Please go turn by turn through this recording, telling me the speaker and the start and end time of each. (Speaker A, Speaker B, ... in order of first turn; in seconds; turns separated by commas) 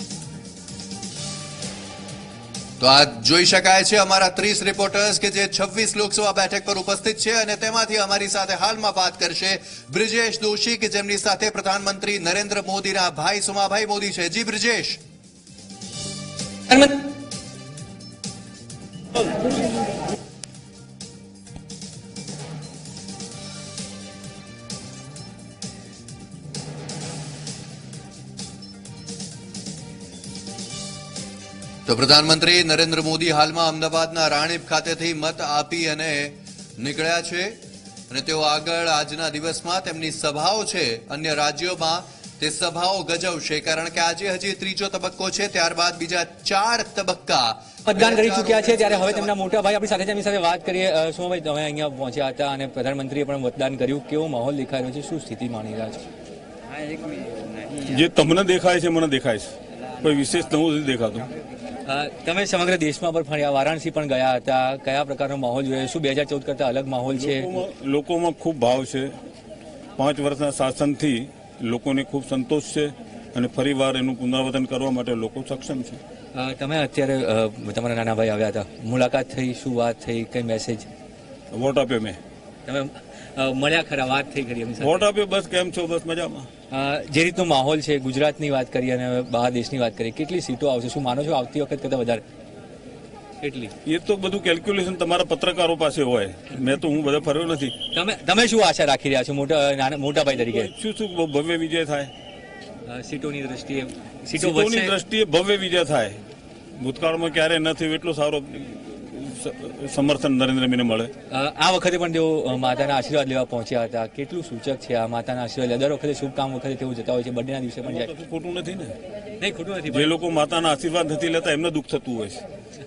Speaker A: 2.8-15.0, Speaker A: 31.9-49.3, Speaker B: 47.9-56.0, Speaker C: 57.8-61.3, Speaker B: 61.9-67.6, Speaker C: 67.1-69.2, Speaker C: 70.0-76.0, Speaker B: 76.3-80.9, Speaker C: 81.5-82.2, Speaker B: 82.7-85.0, Speaker C: 84.8-86.5, Speaker B: 86.7-92.2, Speaker B: 93.4-93.7, Speaker C: 93.8-97.8, Speaker B: 97.9-100.7, Speaker C: 100.3-102.1, Speaker B: 102.9-104.9, Speaker C: 104.3-106.2, Speaker C: 106.8-111.1, Speaker B: 111.3-118.1, Speaker C: 117.8-118.9, Speaker B: 119.4-120.1, Speaker C: 119.9-122.4